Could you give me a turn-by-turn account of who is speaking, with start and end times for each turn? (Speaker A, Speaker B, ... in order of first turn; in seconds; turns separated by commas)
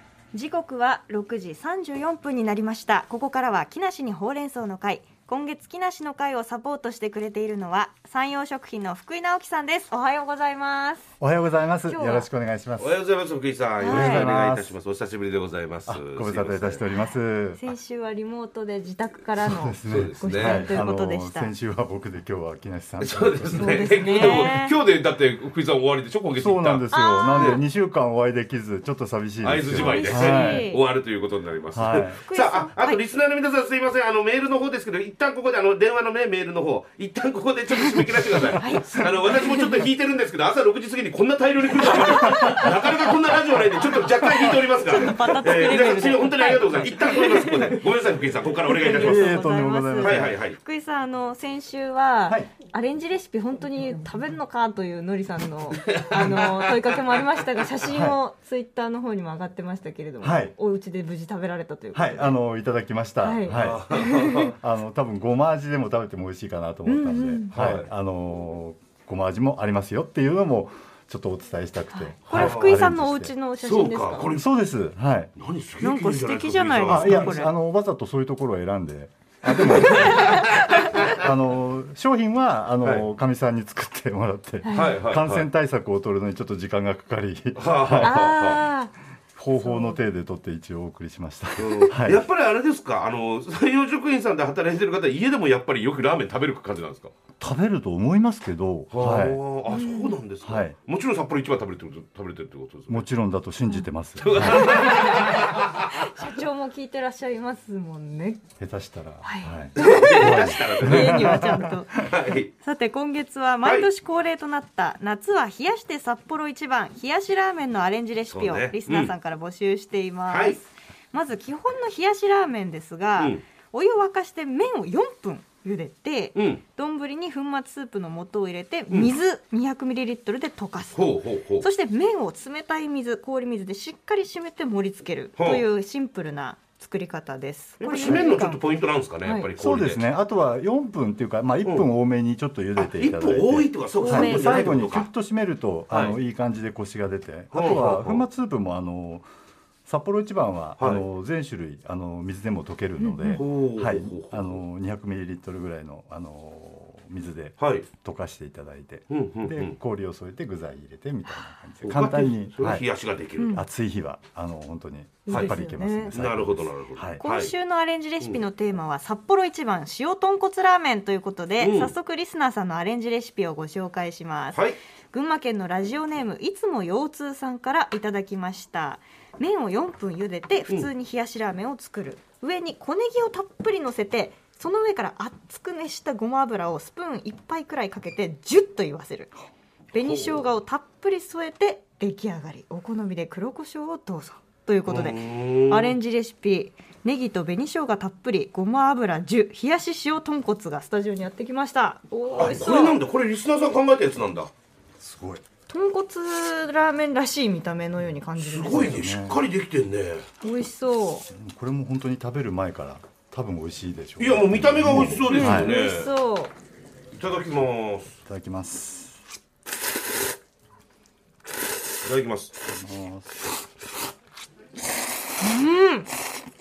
Speaker A: 0.3-11.1, Speaker B: 11.2-13.0, Speaker A: 11.9-12.3, Speaker C: 12.8-16.8, Speaker A: 13.8-14.3, Speaker B: 13.8-14.7, Speaker B: 15.8-17.6, Speaker A: 17.6-21.5, Speaker B: 19.5-24.3, Speaker C: 19.9-20.7, Speaker C: 23.0-27.6, Speaker A: 23.6-24.8, Speaker B: 26.4-30.7, Speaker A: 26.9-27.7, Speaker C: 29.4-49.4, Speaker A: 29.7-30.8, Speaker B: 31.7-32.2, Speaker A: 32.2-33.0, Speaker A: 38.6-39.9, Speaker A: 41.9-42.7, Speaker A: 44.4-47.8, Speaker A: 48.6-62.4, Speaker B: 48.8-50.4, Speaker C: 50.0-50.6, Speaker C: 55.9-56.8, Speaker B: 57.9-58.2, Speaker B: 60.2-60.5, Speaker B: 61.9-63.9, Speaker A: 63.2-64.5, Speaker C: 63.5-64.5, Speaker B: 64.5-73.3, Speaker A: 66.8-67.5, Speaker C: 67.5-67.9, Speaker A: 71.9-74.4, Speaker C: 72.3-72.8, Speaker C: 73.6-74.5, Speaker B: 74.3-75.3, Speaker C: 75.3-77.3, Speaker A: 75.8-77.5, Speaker B: 76.8-80.5, Speaker C: 79.6-81.1, Speaker A: 79.7-80.5, Speaker B: 81.1-88.3, Speaker A: 84.6-85.0, Speaker C: 84.7-85.5, Speaker C: 87.5-88.7, Speaker A: 88.0-88.9, Speaker B: 89.3-92.2, Speaker A: 89.5-90.0, Speaker C: 91.6-97.1, Speaker B: 97.4-99.4, Speaker C: 98.9-103.0, Speaker A: 99.7-100.2, Speaker B: 100.4-100.8, Speaker B: 102.9-104.8, Speaker C: 104.2-105.9, Speaker A: 104.3-108.4, Speaker B: 108.6-112.0, Speaker A: 109.2-112.0, Speaker C: 109.8-111.5, Speaker C: 112.0-112.5, Speaker A: 112.6-138.6, Speaker C: 113.6-113.9, Speaker C: 118.3-119.1, Speaker C: 120.3-120.6, Speaker C: 123.2-123.4, Speaker C: 126.3-126.6, Speaker C: 128.9-129.1, Speaker C: 130.9-131.7, Speaker C: 135.4-135.7, Speaker C: 137.8-140.0, Speaker A: 139.2-139.5, Speaker B: 139.5-149.2, Speaker C: 142.8-145.1, Speaker A: 144.0-144.9, Speaker C: 145.9-146.2, Speaker C: 147.5-148.2, Speaker B: 149.8-162.8, Speaker A: 153.0-153.4, Speaker C: 153.3-154.6, Speaker C: 157.6-157.8, Speaker C: 159.1-159.8, Speaker C: 161.8-163.6, Speaker A: 163.4-163.6, Speaker B: 163.5-167.2, Speaker A: 165.2-166.2, Speaker C: 165.3-165.6, Speaker C: 166.1-167.5, Speaker A: 167.2-189.3, Speaker C: 171.6-171.9, Speaker C: 174.5-174.8, Speaker A: 189.9-203.0, Speaker C: 189.9-190.4, Speaker C: 194.8-196.0, Speaker C: 202.3-204.5, Speaker B: 205.0-205.4, Speaker A: 205.7-209.0, Speaker C: 208.4-210.2, Speaker B: 208.7-209.4, Speaker A: 210.4-211.3, Speaker B: 211.3-215.8, Speaker C: 214.2-216.1, Speaker A: 215.3-216.5, Speaker C: 217.1-218.1, Speaker B: 218.2-219.2, Speaker C: 222.0-222.5, Speaker B: 222.7-223.5, Speaker A: 225.4-226.1